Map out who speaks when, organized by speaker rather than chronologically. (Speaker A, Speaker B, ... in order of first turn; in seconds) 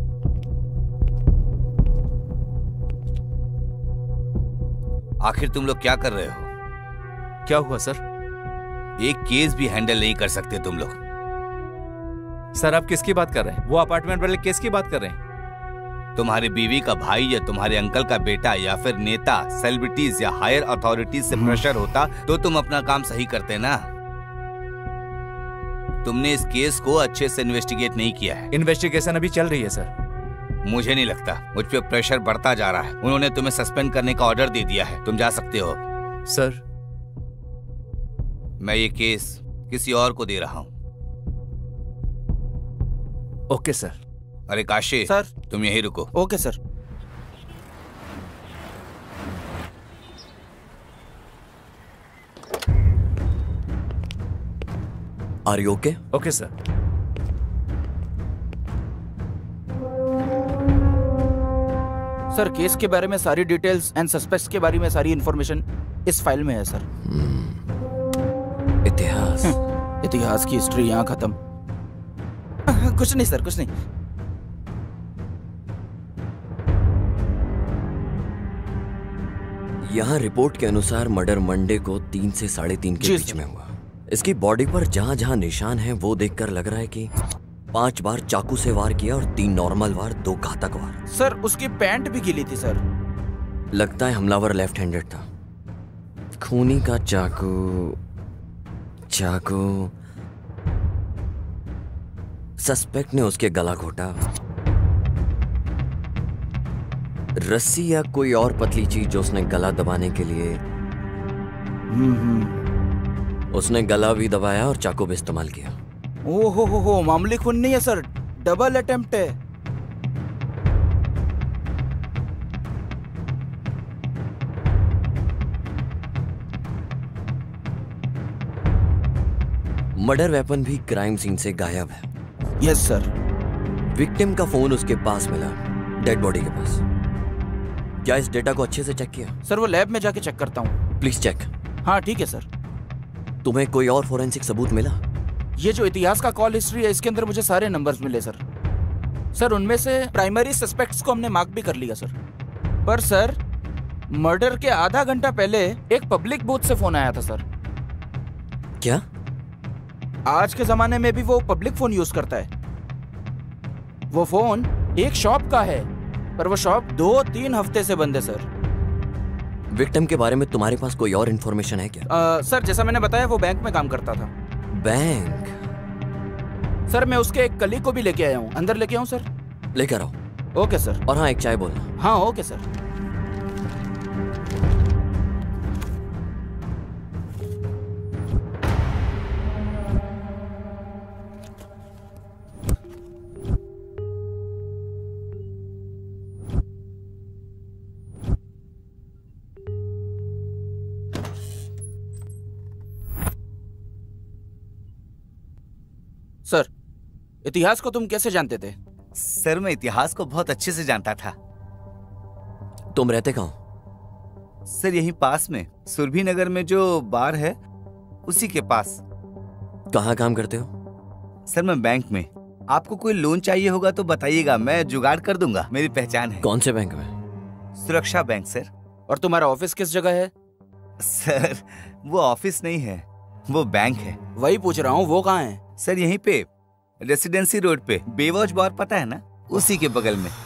Speaker A: 5.2-6.5, 9.0-11.0, 16.1-23.8, 26.0-28.5, 30.6-35.8, 38.6-40.7, 44.5-46.1, 209.2-211.3, 214.7-217.6, 218.2-219.0, 221.5-226.4, 227.8-228.7, 231.0-234.2, 235.8-236.4, 237.0-240.3
Speaker B: 7.5-8.0, 12.6-15.2, 21.3-21.6, 28.5-29.9, 36.3-36.6, 43.5-44.0, 56.1-56.5
Speaker C: 45.1-45.3, 46.1-46.6, 62.3-66.8, 69.4-71.3, 72.7-73.7, 83.0-83.4, 91.1-92.8, 111.9-112.5, 116.2-119.3, 132.6-133.1, 139.4-140.8, 141.8-142.4, 145.6-148.4, 149.3-152.1, 152.8-153.4, 154.1-157.4, 160.3-162.5, 164.1-165.9, 166.4-168.4, 172.1-174.3, 176.9-179.2, 180.6-181.0, 182.0-182.6, 207.4-208.8, 229.1-230.3, 234.4-235.6
Speaker D: 55.5-56.0, 67.0-67.6, 68.8-69.5, 79.8-87.1, 87.7-91.0, 93.7-95.2, 96.4-98.0, 99.1-99.9, 102.6-104.2, 107.3-110.6, 113.5-115.7, 130.0-132.1, 133.9-136.8, 138.0-139.3, 141.0-141.5, 143.4-145.0, 158.8-159.0, 169.7-172.0, 174.7-175.5, 179.7-180.1, 181.1-181.9, 212.9-213.6, 219.9-220.7, 226.4-227.1